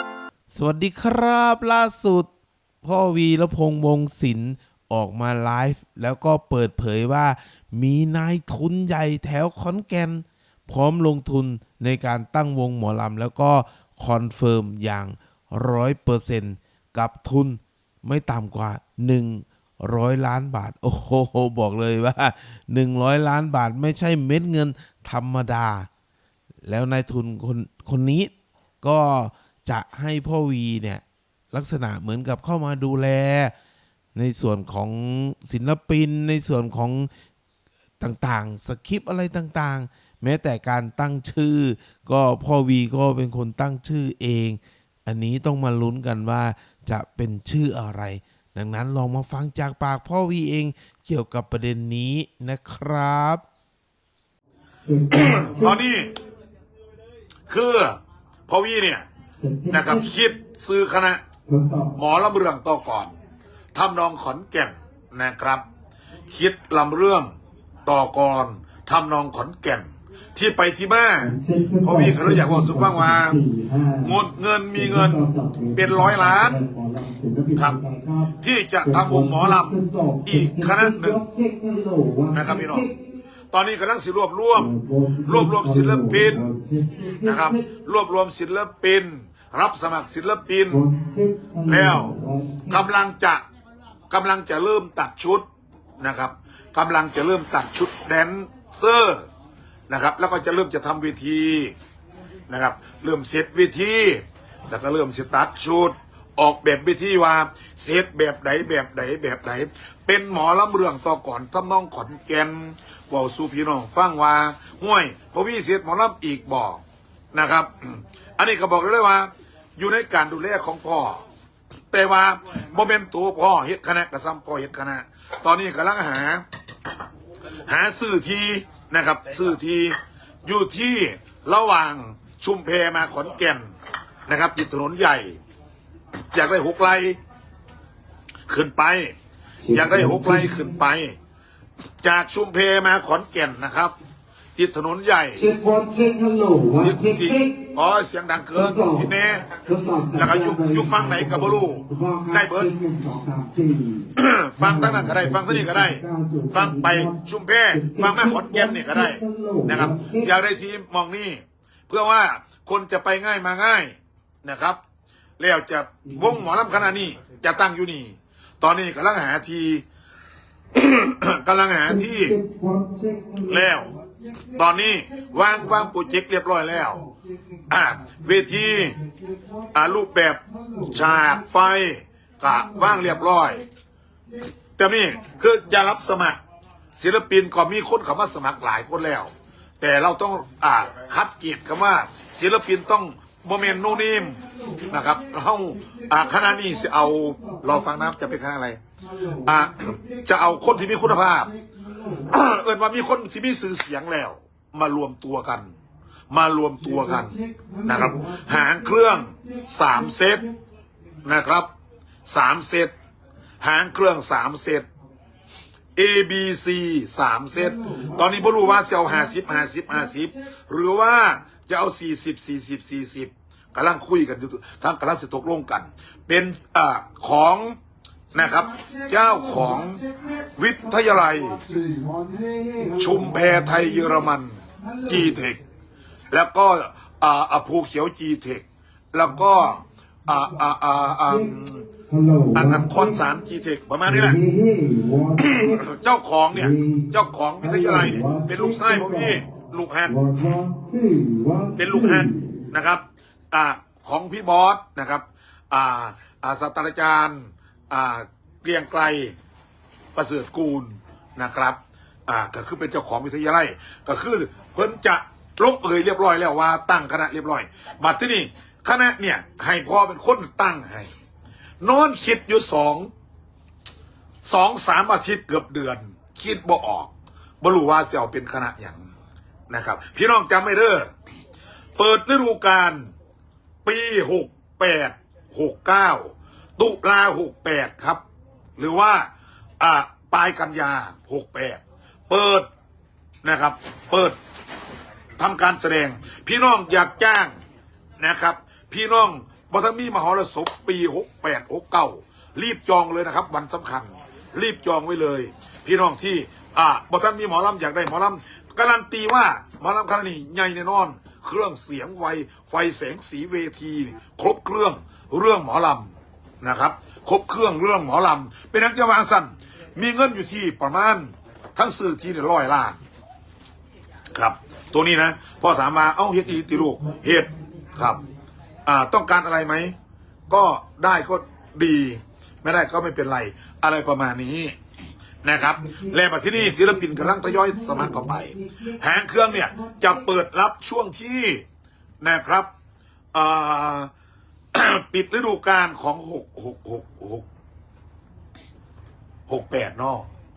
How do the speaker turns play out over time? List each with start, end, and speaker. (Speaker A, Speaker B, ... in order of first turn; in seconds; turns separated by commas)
Speaker A: 0.5-2.3, Speaker A: 2.8-25.9, Speaker A: 26.6-33.5, Speaker A: 34.1-37.1, Speaker A: 38.0-53.4, Speaker B: 54.8-55.8, Speaker C: 55.1-56.1, Speaker C: 57.5-59.0, Speaker B: 59.4-60.1, Speaker C: 59.7-61.2, Speaker B: 61.5-62.0, Speaker C: 61.9-63.1, Speaker C: 63.7-65.6, Speaker C: 66.3-67.3, Speaker C: 67.8-73.4, Speaker B: 71.2-74.2, Speaker C: 74.0-76.6, Speaker B: 74.7-82.9, Speaker C: 78.3-81.2, Speaker C: 82.3-82.9, Speaker C: 83.5-84.7, Speaker B: 84.5-87.7, Speaker C: 85.2-86.5, Speaker C: 87.2-90.8, Speaker B: 90.7-92.8, Speaker C: 91.6-92.1, Speaker C: 92.7-93.4, Speaker C: 94.1-95.4, Speaker C: 96.0-99.3, Speaker C: 99.9-101.7, Speaker C: 102.5-121.2, Speaker C: 121.9-126.4, Speaker C: 127.5-133.7, Speaker C: 134.3-135.4, Speaker C: 136.3-137.2, Speaker C: 138.5-139.1, Speaker B: 139.6-140.7, Speaker C: 139.7-141.1, Speaker C: 142.0-143.9, Speaker C: 144.6-145.4, Speaker B: 145.3-147.7, Speaker C: 146.7-149.6, Speaker B: 148.5-157.2, Speaker C: 150.1-152.7, Speaker C: 154.2-164.8, Speaker B: 157.7-160.3, Speaker C: 165.4-169.8, Speaker B: 166.0-166.7, Speaker C: 170.7-172.3, Speaker B: 171.9-176.0, Speaker C: 173.4-173.9, Speaker C: 174.5-177.0, Speaker B: 176.7-179.9, Speaker C: 177.7-179.0, Speaker C: 179.7-183.6, Speaker B: 180.5-181.5, Speaker B: 182.4-183.5, Speaker C: 184.8-186.4, Speaker C: 186.9-194.4, Speaker B: 193.6-198.3, Speaker C: 194.9-198.8, Speaker B: 199.0-202.3, Speaker C: 199.4-201.5, Speaker C: 202.2-205.7, Speaker C: 206.3-210.4, Speaker B: 206.8-210.5, Speaker C: 211.2-211.7, Speaker C: 212.2-212.9, Speaker C: 213.6-214.9, Speaker C: 215.9-227.8, Speaker B: 217.5-220.3, Speaker C: 228.3-230.0, Speaker B: 228.3-234.2, Speaker C: 230.6-231.6, Speaker C: 232.9-235.6, Speaker B: 234.8-235.3, Speaker C: 236.3-241.9, Speaker B: 241.2-243.2, Speaker C: 242.5-244.4, Speaker B: 244.1-245.8, Speaker C: 245.3-250.6, Speaker B: 246.5-249.5, Speaker B: 250.0-252.6, Speaker C: 251.8-259.3, Speaker C: 260.1-271.1, Speaker C: 271.8-273.1, Speaker C: 274.4-279.0, Speaker C: 279.7-281.1, Speaker C: 282.0-283.1, Speaker C: 283.8-288.2, Speaker C: 288.8-292.7, Speaker C: 293.4-294.4, Speaker C: 295.4-297.6, Speaker C: 298.2-316.1, Speaker C: 316.6-323.0, Speaker C: 324.3-328.2, Speaker B: 326.6-328.2, Speaker C: 328.8-329.9, Speaker C: 330.5-334.8, Speaker C: 335.4-341.6, Speaker B: 335.7-340.3, Speaker C: 342.2-342.7, Speaker C: 343.3-344.1, Speaker C: 344.7-347.4, Speaker C: 349.5-350.3